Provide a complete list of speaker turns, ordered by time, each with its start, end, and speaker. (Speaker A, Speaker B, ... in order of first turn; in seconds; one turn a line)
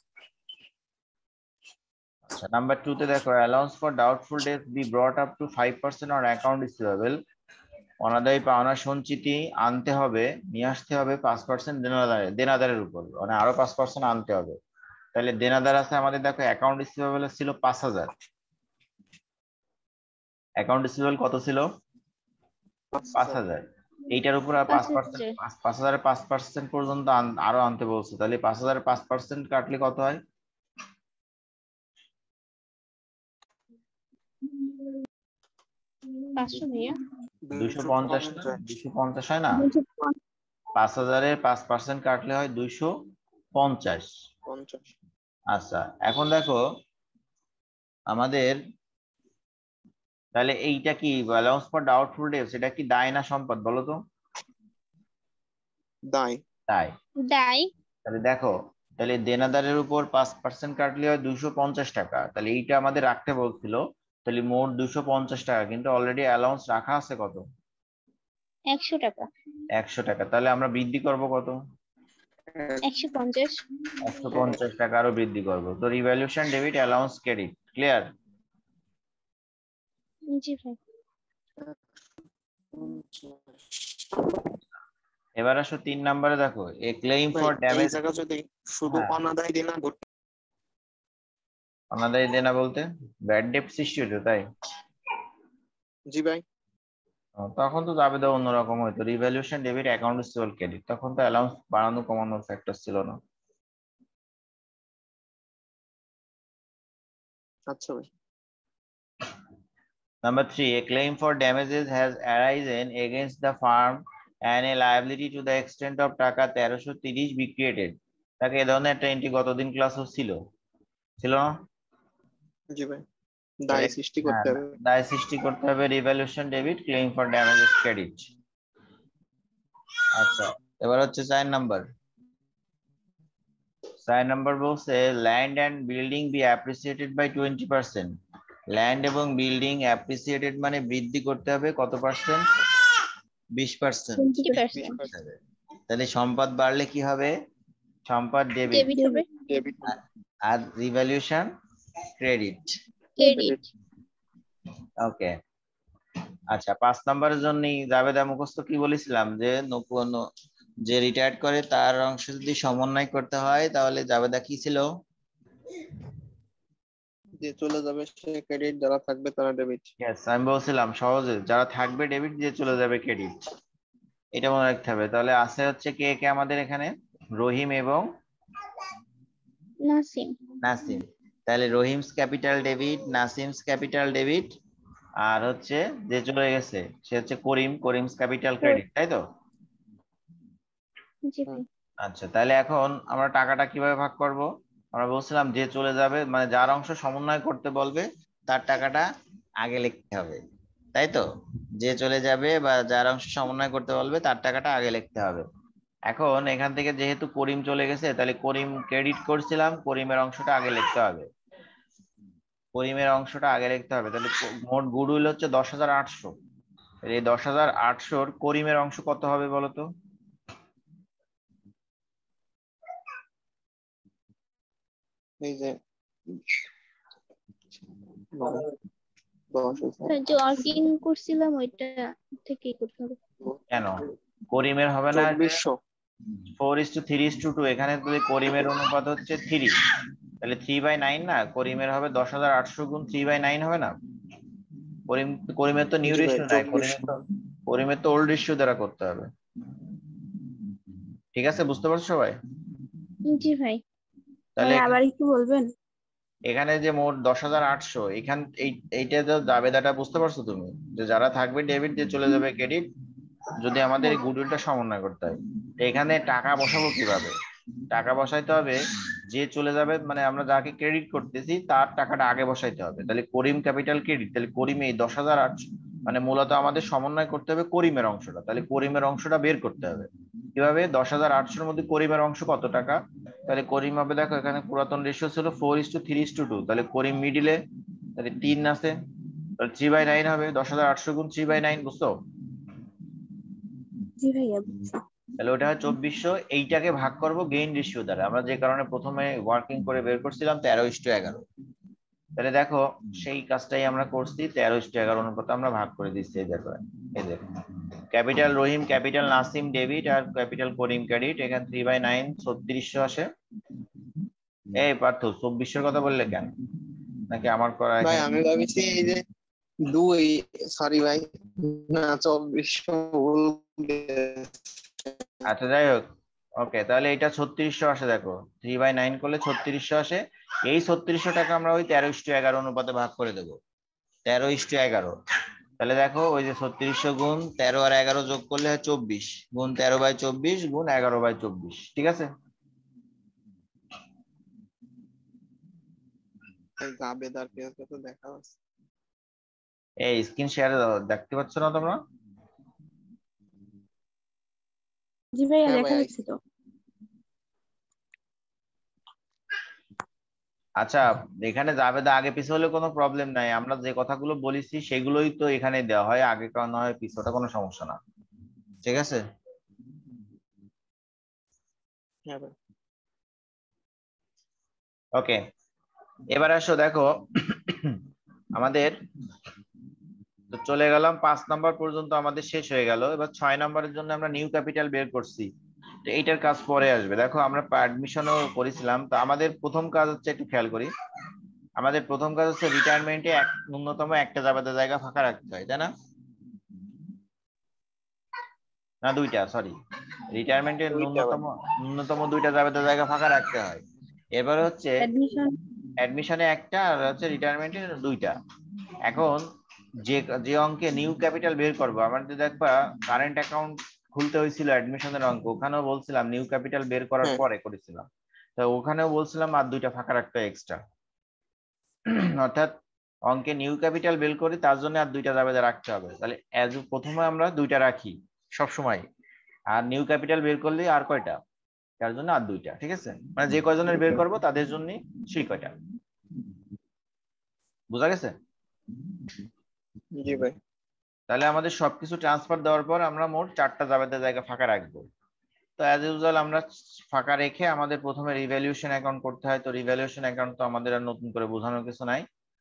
Speaker A: 2.4-7.2
Speaker A: 8.0-14.6
Speaker A: 15.2-18.1
Speaker A: 20.6-21.7
Speaker B: 22.9-23.4
Speaker A: 23.1-30.2
Speaker C: 24.7-25.3
Speaker C: 36.4-37.0
Speaker B: 37.5-38.6
Speaker A: 37.6-39.7
Speaker D: 39.6-40.1
Speaker A: 40.8-42.9
Speaker A: 43.6-44.1
Speaker B: 44.5-44.9
Speaker A: 45.5-46.6
Speaker A: 48.1-48.6
Speaker A: 50.4-54.0
Speaker B: 56.1-56.4
Speaker A: 56.7-57.0
Speaker C: 57.2-57.7
Speaker A: 58.0-67.4
Speaker C: 68.7-69.3
Speaker A: 69.8-71.6
Speaker B: 72.5-72.8
Speaker C: 72.8-73.6
Speaker A: 74.0-78.1
Speaker B: 74.3-74.6
Speaker C: 80.3-80.8
Speaker B: 82.7-84.5
Speaker A: 85.4-88.0
Speaker B: 87.3-90.0
Speaker A: 88.9-89.2
Speaker A: 91.9-94.4
Speaker B: 96.1-96.4
Speaker A: 97.4-103.2
Speaker B: 107.7-108.1
Speaker A: 110.2-120.4
Speaker A: 121.2-121.5
Speaker B: 122.7-123.0
Speaker B: 123.6-124.8
Speaker A: 123.7-128.3
Speaker A: 130.2-131.9
Speaker A: 134.1-138.1
Speaker A: 138.7-142.5
Speaker A: 143.6-144.4
Speaker D: 144.2-145.0
Speaker C: 144.4-145.0
Speaker B: 144.7-145.1
Speaker A: 145.0-145.4
Speaker A: 145.9-147.3
Speaker A: 148.1-148.9
Speaker C: 148.7-149.2
Speaker D: 148.9-149.2
Speaker B: 149.5-150.0
Speaker A: 150.5-151.5
Speaker A: 152.2-152.8
Speaker C: 153.2-153.6
Speaker D: 153.2-153.5
Speaker A: 155.0-155.3
Speaker A: 156.5-160.2
Speaker A: 160.9-164.9
Speaker B: 167.4-169.9
Speaker A: 170.0-173.4
Speaker A: 174.3-178.1
Speaker C: 179.8-180.4
Speaker A: 180.6-184.5
Speaker A: 185.2-189.2
Speaker C: 191.3-191.7
Speaker A: 192.0-199.1
Speaker A: 199.6-200.4
Speaker A: 200.9-201.2
Speaker A: 201.8-205.4
Speaker A: 206.1-211.3
Speaker A: 212.8-216.3
Speaker A: 217.0-219.9
Speaker B: 225.4-225.8
Speaker B: 226.3-226.5
Speaker B: 228.3-228.7
Speaker B: 229.5-230.2
Speaker C: 230.1-233.2
Speaker A: 233.7-235.5
Speaker B: 235.1-235.8
Speaker A: 236.6-239.8
Speaker A: 240.4-243.9
Speaker A: 245.1-247.2
Speaker B: 246.1-247.1
Speaker A: 247.7-249.3
Speaker A: 251.3-252.4
Speaker C: 253.3-253.8
Speaker A: 254.6-255.0
Speaker D: 254.6-255.7
Speaker A: 256.5-262.9
Speaker A: 263.6-267.4
Speaker A: 267.9-268.8
Speaker A: 269.3-287.6
Speaker A: 288.2-288.9
Speaker A: 289.6-292.1
Speaker D: 294.2-295.0
Speaker A: 295.4-301.4
Speaker A: 302.4-307.5
Speaker A: 308.1-313.3
Speaker A: 314.7-316.5
Speaker A: 317.3-318.3
Speaker B: 318.0-319.2
Speaker B: 319.9-325.5
Speaker A: 325.5-326.1
Speaker A: 326.6-333.6
Speaker A: 334.3-335.2
Speaker A: 335.8-342.3
Speaker B: 346.8-348.6
Speaker A: 350.0-352.0
Speaker D: 355.4-356.4
Speaker B: 355.6-356.1
Speaker A: 360.8-368.0
Speaker A: 368.8-369.2
Speaker B: 372.3-372.5
Speaker A: 376.3-378.0
Speaker A: 378.6-379.0
Speaker A: 380.5-385.5
Speaker A: 386.1-390.9
Speaker A: 391.8-395.9
Speaker A: 399.0-399.8
Speaker A: 400.3-403.8
Speaker B: 400.9-401.4
Speaker A: 404.4-405.1
Speaker D: 405.0-405.5
Speaker A: 406.0-408.4
Speaker A: 409.1-409.5
Speaker A: 410.1-420.8
Speaker A: 422.1-422.8
Speaker A: 423.3-429.1
Speaker A: 429.7-431.4
Speaker A: 432.0-435.7
Speaker A: 437.9-438.4
Speaker B: 440.2-440.6
Speaker A: 441.3-445.1
Speaker A: 445.8-452.3